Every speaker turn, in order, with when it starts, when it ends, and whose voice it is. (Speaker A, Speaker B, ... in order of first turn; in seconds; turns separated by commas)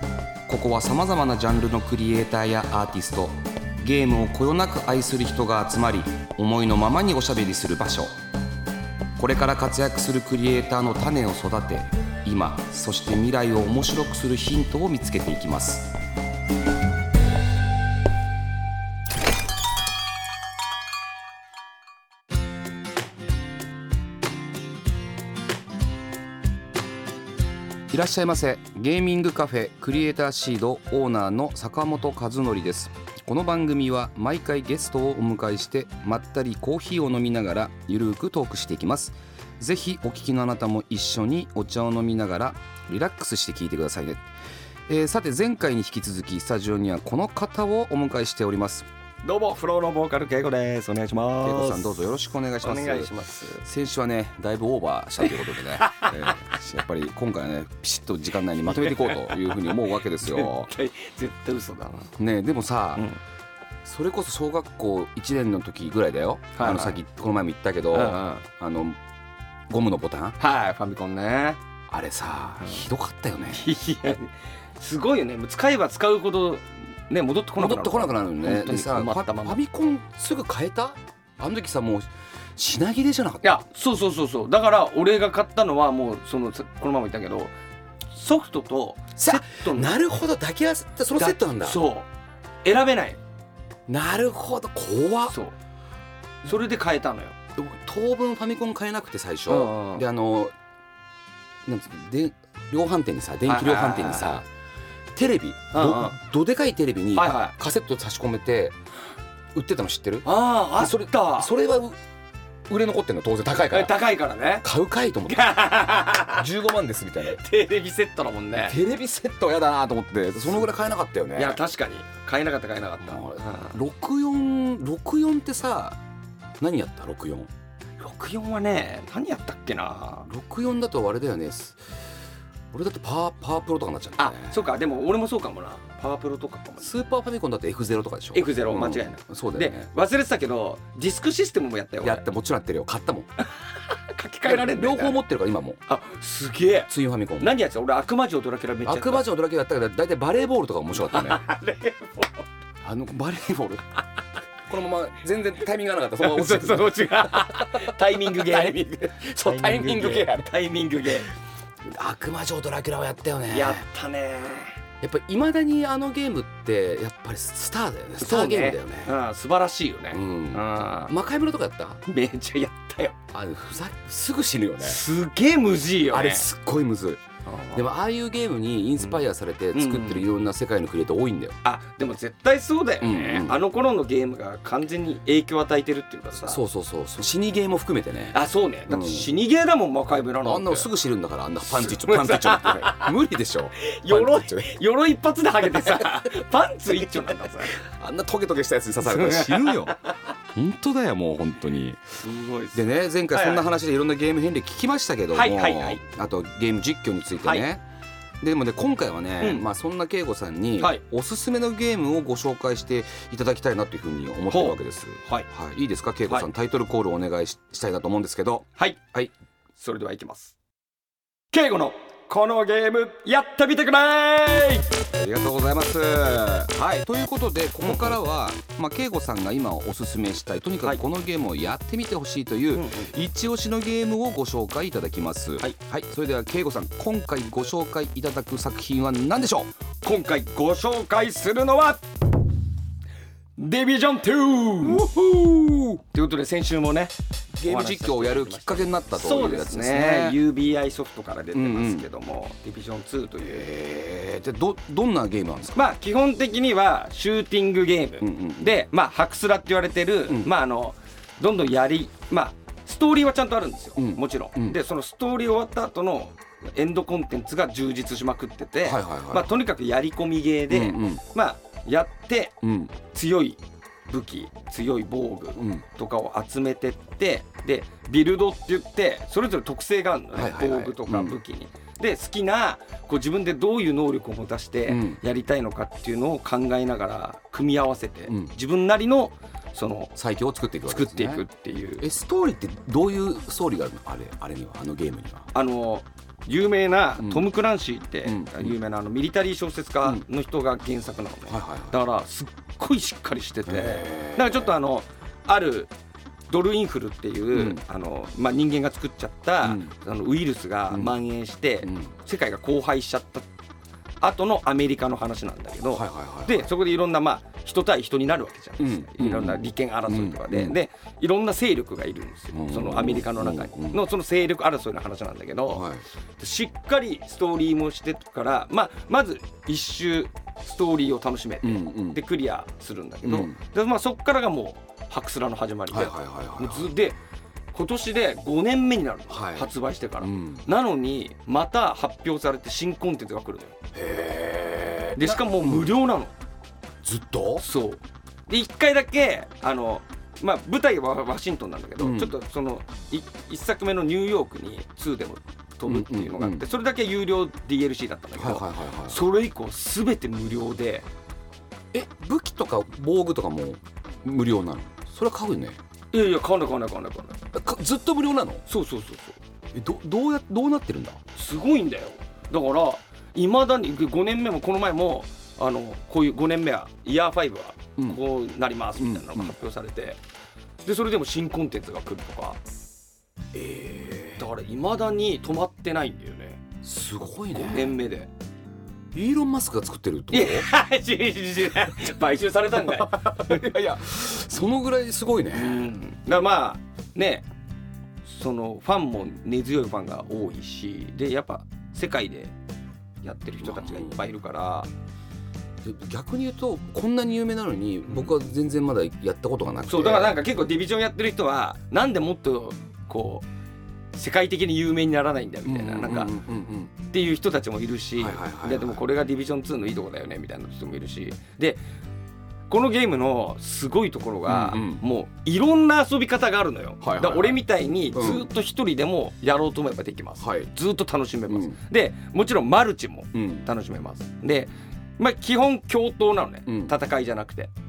Speaker A: 0.5-8.1, Speaker A: 9.2-15.9, Speaker A: 27.9-44.2, Speaker A: 44.9-48.9, Speaker B: 49.2-52.0, Speaker A: 51.4-60.7, Speaker B: 52.6-53.6, Speaker B: 55.2-56.4, Speaker B: 58.7-62.1, Speaker A: 62.2-63.1, Speaker A: 63.8-69.0, Speaker B: 66.5-67.0, Speaker B: 67.9-68.5, Speaker A: 69.7-70.4, Speaker B: 70.4-71.6, Speaker A: 71.9-73.7, Speaker B: 73.5-79.6, Speaker A: 77.6-83.5, Speaker B: 83.4-87.5, Speaker B: 88.1-90.0, Speaker A: 89.2-91.8, Speaker B: 91.2-92.1, Speaker B: 92.6-93.2, Speaker A: 93.9-95.4, Speaker B: 95.3-95.5, Speaker B: 96.4-97.3, Speaker A: 97.5-100.5, Speaker B: 99.5-100.0, Speaker A: 101.7-104.5, Speaker B: 103.5-104.4, Speaker A: 105.1-108.8, Speaker B: 105.7-106.2, Speaker B: 107.2-107.5, Speaker A: 109.5-112.0, Speaker B: 110.2-111.5, Speaker A: 112.7-114.0, Speaker B: 113.7-114.7, Speaker A: 114.6-117.4, Speaker B: 115.3-116.5, Speaker B: 117.3-118.8, Speaker A: 118.6-121.6, Speaker B: 121.3-123.8, Speaker A: 123.0-126.0, Speaker A: 126.6-127.5, Speaker B: 128.0-130.3, Speaker A: 130.3-131.9, Speaker A: 132.7-134.6, Speaker B: 134.2-136.9, Speaker A: 136.8-139.9, Speaker B: 138.3-142.2, Speaker A: 142.0-143.3, Speaker B: 143.4-145.2, Speaker A: 144.4-145.8, Speaker B: 145.9-149.3, Speaker A: 146.9-147.6, Speaker A: 148.8-151.4, Speaker B: 151.1-152.4, Speaker A: 152.8-154.0, Speaker A: 154.7-160.5, Speaker B: 156.2-161.3, Speaker A: 161.8-163.8, Speaker B: 163.5-164.7, Speaker A: 165.0-169.2, Speaker B: 168.2-171.1, Speaker A: 170.1-172.0, Speaker B: 172.1-173.2, Speaker A: 173.3-175.0, Speaker B: 174.8-176.5, Speaker A: 176.1-177.2, Speaker B: 177.5-177.8, Speaker A: 177.7-181.6, Speaker B: 179.7-180.3, Speaker B: 181.6-186.6, Speaker A: 183.0-183.6, Speaker A: 186.4-189.3, Speaker B: 188.3-190.9, Speaker A: 190.4-194.7, Speaker B: 191.7-193.1, Speaker B: 193.8-197.8, Speaker A: 197.8-200.0, Speaker B: 199.0-200.1, Speaker A: 200.5-202.0, Speaker B: 202.2-202.8, Speaker A: 202.7-207.8, Speaker B: 203.3-203.7, Speaker B: 205.3-206.0, Speaker B: 207.4-207.7, Speaker A: 208.4-219.3, Speaker B: 214.5-215.5, Speaker B: 219.8-220.6, Speaker B: 221.5-224.9, Speaker A: 225.1-239.7, Speaker B: 227.8-228.2, Speaker B: 232.7-233.2, Speaker B: 240.0-242.0, Speaker B: 243.6-245.1, Speaker A: 244.8-246.0, Speaker B: 246.1-253.7, Speaker A: 247.6-250.4, Speaker A: 251.5-252.1, Speaker A: 253.4-255.9, Speaker B: 255.8-272.6, Speaker A: 258.2-258.8, Speaker A: 264.0-264.8, Speaker A: 268.8-269.6, Speaker A: 270.7-271.2, Speaker A: 272.6-272.9, Speaker B: 273.1-290.1, Speaker A: 275.6-275.9, Speaker A: 280.4-281.4, Speaker A: 284.9-285.2, Speaker A: 290.2-291.4, Speaker B: 290.9-292.1, Speaker A: 292.0-295.5, Speaker B: 295.5-305.9, Speaker A: 297.2-297.5, Speaker A: 298.2-298.8, Speaker A: 301.5-302.0, Speaker A: 303.7-304.7, Speaker B: 306.5-313.5, Speaker A: 307.5-307.8, Speaker A: 309.6-309.9, Speaker A: 310.9-311.2, Speaker A: 311.8-312.1, Speaker B: 314.2-325.9, Speaker A: 315.9-316.7, Speaker A: 318.8-320.8, Speaker A: 322.5-324.0, Speaker A: 325.7-326.0, Speaker B: 326.4-337.2, Speaker A: 331.6-332.2, Speaker A: 333.2-333.6, Speaker A: 335.9-336.9, Speaker B: 337.7-343.8, Speaker A: 339.3-339.7, Speaker A: 340.2-340.6, Speaker A: 343.9-345.9, Speaker B: 345.1-346.3, Speaker A: 347.0-347.6, Speaker B: 347.6-361.1, Speaker A: 352.0-352.4, Speaker A: 355.9-356.6, Speaker A: 358.4-359.2, Speaker A: 361.9-365.8, Speaker B: 366.1-367.4, Speaker A: 367.5-368.6, Speaker B: 368.7-369.4, Speaker A: 369.7-371.2, Speaker B: 371.4-380.2, Speaker A: 379.0-379.5, Speaker B: 380.9-382.6, Speaker A: 383.5-384.4, Speaker B: 384.4-386.6, Speaker A: 386.8-388.0, Speaker B: 387.5-388.3, Speaker A: 389.1-390.7, Speaker B: 390.3-393.7, Speaker A: 392.8-395.9, Speaker B: 395.5-397.4, Speaker B: 398.2-402.5, Speaker B: 403.2-404.9, Speaker A: 403.6-404.2, Speaker A: 405.8-410.4, Speaker B: 408.1-408.3, Speaker B: 409.9-413.5, Speaker B: 414.1-416.4, Speaker A: 415.6-416.9, Speaker B: 417.1-421.8, Speaker A: 418.2-419.0, Speaker B: 422.7-437.7, Speaker A: 424.5-425.0, Speaker A: 427.0-427.6, Speaker A: 428.1-428.5, Speaker A: 430.4-430.7, Speaker A: 431.5-431.8, Speaker A: 433.3-433.6, Speaker A: 436.7-436.9